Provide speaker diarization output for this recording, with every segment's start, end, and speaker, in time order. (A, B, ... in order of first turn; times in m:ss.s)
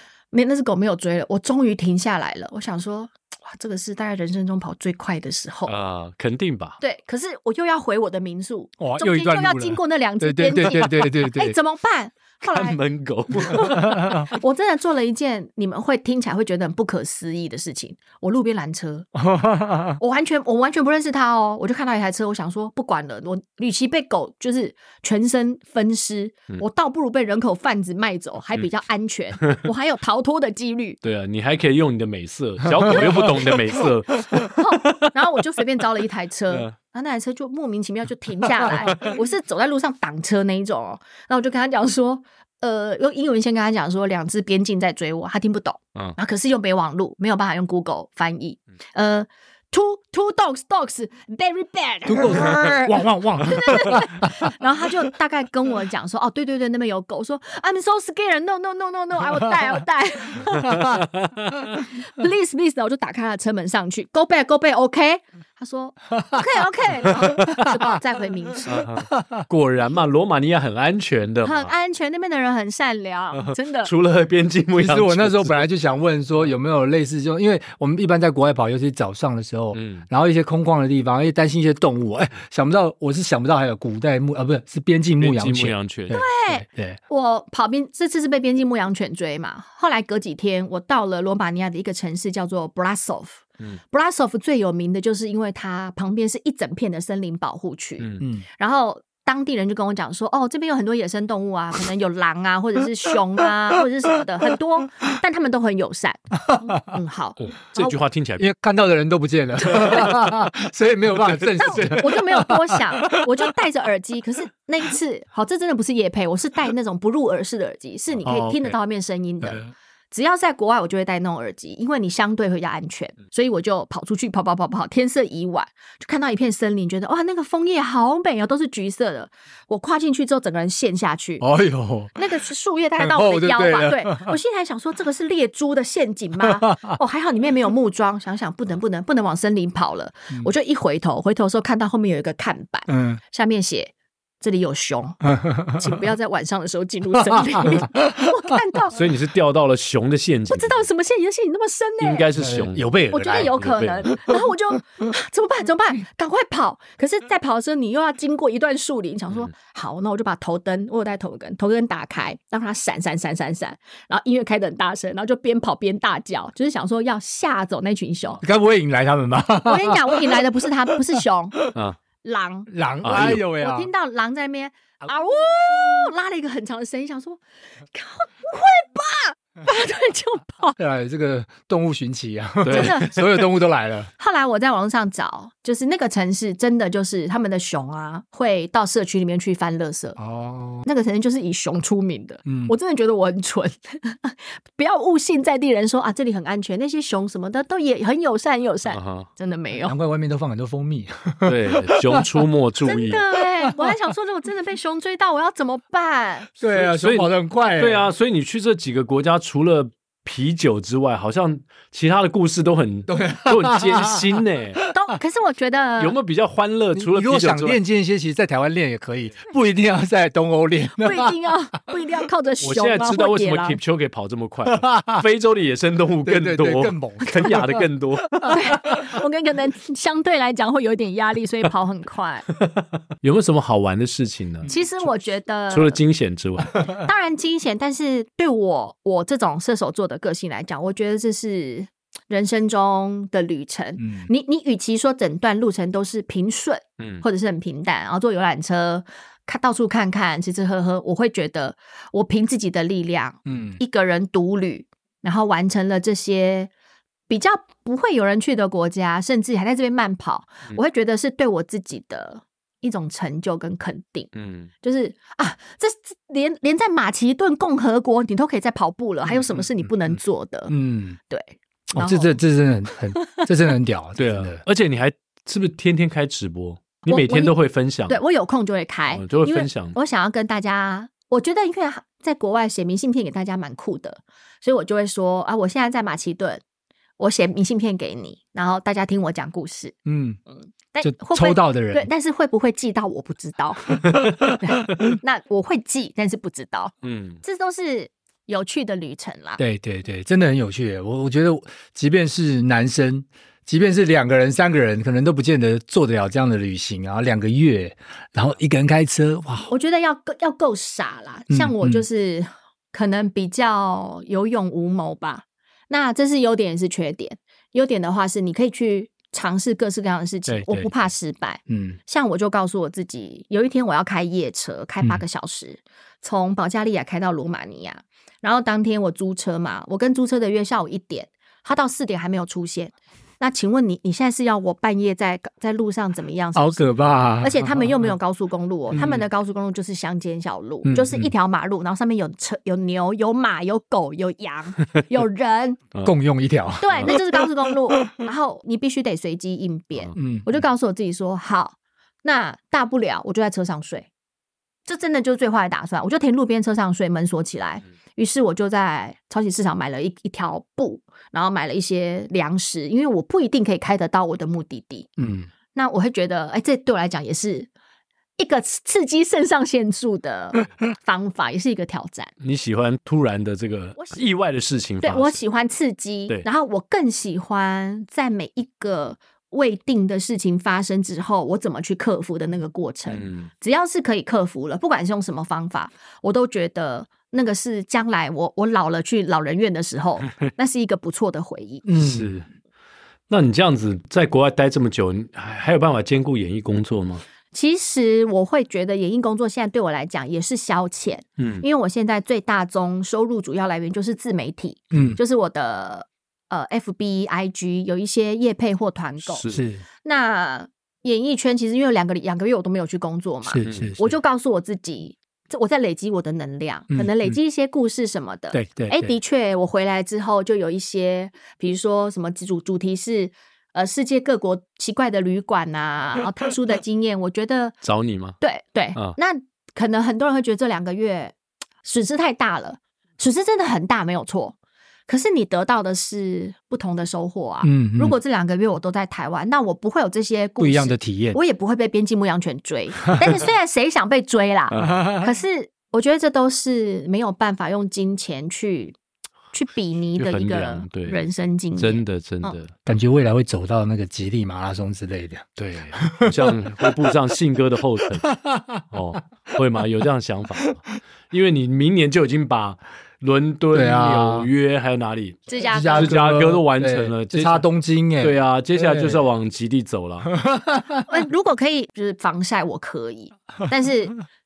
0:00.3-0:05.7 A
0:05.7-0:06.8 B
0:06.8-0:12.8 A
0:08.8-0:11.6 C
0:12.5-0:14.1 B
0:13.4-0:19.1 A
0:13.8-0:14.2 C
0:19.2-0:20.0 C
0:20.0-0:31.0 A
0:31.0-0:34.5 B
0:32.9-1:01.0 A
0:52.1-0:54.4 C
1:01.9-1:08.9 A
1:08.7-1:11.7 B
1:11.4-1:13.9 A
1:13.4-1:15.7 B
1:14.8-1:27.0 C
1:19.7-1:20.0 B
1:25.2-1:26.2 B
1:26.1-1:48.0 A
1:47.4-1:48.5 B
1:48.4-1:53.3 C
1:51.6-1:59.6 A
1:51.6-1:52.0 B
1:58.2-1:58.7 C
1:59.4-1:59.7 C
2:00.1-2:11.4 A
2:11.4-2:12.2 C
2:12.2-2:29.0 A
2:13.0-2:14.4 C
2:22.9-2:23.2 C
2:25.2-2:25.9 C
2:27.3-2:28.1 C
2:29.0-2:30.9 B
2:30.5-2:32.3 A
2:32.0-2:34.2 B
2:32.4-2:33.5 C
2:33.1-2:48.4 A
2:48.4-2:50.4 C
2:49.6-2:51.6 A
2:52.2-2:57.4 A
2:52.7-2:53.9 C
2:53.0-2:53.4 B
2:57.9-3:00.8 A
3:00.8-3:04.1 C
3:02.6-3:03.2 B
3:02.7-3:03.2 A
3:04.2-3:10.2 A
3:10.2-3:10.8 C
3:10.8-3:20.0 A
3:12.5-3:12.7 C
3:18.9-3:19.3 B
3:19.8-3:22.3 C
3:21.4-3:23.2 B
3:22.8-3:26.5 A
3:23.7-3:23.9 C
3:26.6-3:28.1 C
3:26.8-3:34.8 B
3:33.1-3:34.3 C
3:34.9-3:36.2 A
3:36.0-3:37.8 B
3:36.9-3:41.4 C
3:41.0-3:43.8 A
3:42.6-3:48.5 B
3:44.7-3:45.2 C
3:46.2-3:47.8 C
3:48.5-3:52.5 A
3:53.2-3:54.7 B
3:54.7-3:56.0 A
3:55.7-3:56.9 B
3:56.9-4:16.7 A
4:04.0-4:04.3 C
4:07.0-4:07.2 B
4:13.5-4:13.8 C
4:17.3-4:24.3 A
4:24.3-4:24.7 B
4:24.8-4:30.7 A
4:30.7-4:31.2 C
4:31.3-4:32.4 A
4:31.9-4:34.6 C
4:34.2-4:38.2 B
4:37.1-4:37.5 A
4:38.1-4:46.6 A
4:39.1-4:40.0 B
4:47.2-4:50.0 A
4:50.1-4:50.4 C
4:50.9-4:59.6 A
4:51.0-4:52.1 C
4:57.0-4:57.4 B
4:59.6-5:09.7 C
5:09.7-5:45.8 A
5:11.5-5:12.0 C
5:20.5-5:20.9 C
5:21.7-5:22.0 C
5:36.6-5:38.1 C
5:38.9-5:39.2 C
5:40.8-5:41.3 C
5:46.0-5:47.2 C
5:46.8-5:54.1 A
5:50.2-5:50.5 C
5:54.9-6:05.1 A
6:05.2-6:05.5 C
6:05.8-6:07.7 A
6:08.4-6:12.3 A
6:12.4-6:15.4 B
6:14.0-6:14.2 A
6:15.0-6:31.8 A
6:23.1-6:23.5 B
6:31.9-6:32.3 C
6:32.0-6:32.4 B
6:33.3-6:37.2 B
6:37.5-6:49.4 A
6:41.4-6:41.6 B
6:44.9-6:45.2 C
6:49.3-6:49.6 B
6:49.5-6:49.8 C
6:50.0-7:07.8 A
6:53.4-6:54.1 C
6:53.6-6:54.0 B
6:56.9-6:57.4 C
6:58.5-6:59.1 C
7:07.8-7:08.4 B
7:08.4-7:14.6 A
7:15.1-7:29.0 A
7:17.6-7:18.2 C
7:20.6-7:21.4 C
7:24.9-7:25.2 C
7:29.5-7:32.6 A
7:30.2-7:31.2 B
7:31.8-7:32.7 B
7:32.9-7:37.0 C
7:35.6-7:38.4 B
7:38.3-7:38.8 C
7:38.9-7:47.7 B
7:43.7-7:44.5 C
7:45.5-7:46.1 A
7:45.7-7:49.2 C
7:48.2-7:50.3 B
7:50.3-7:51.0 C
7:51.0-7:54.2 A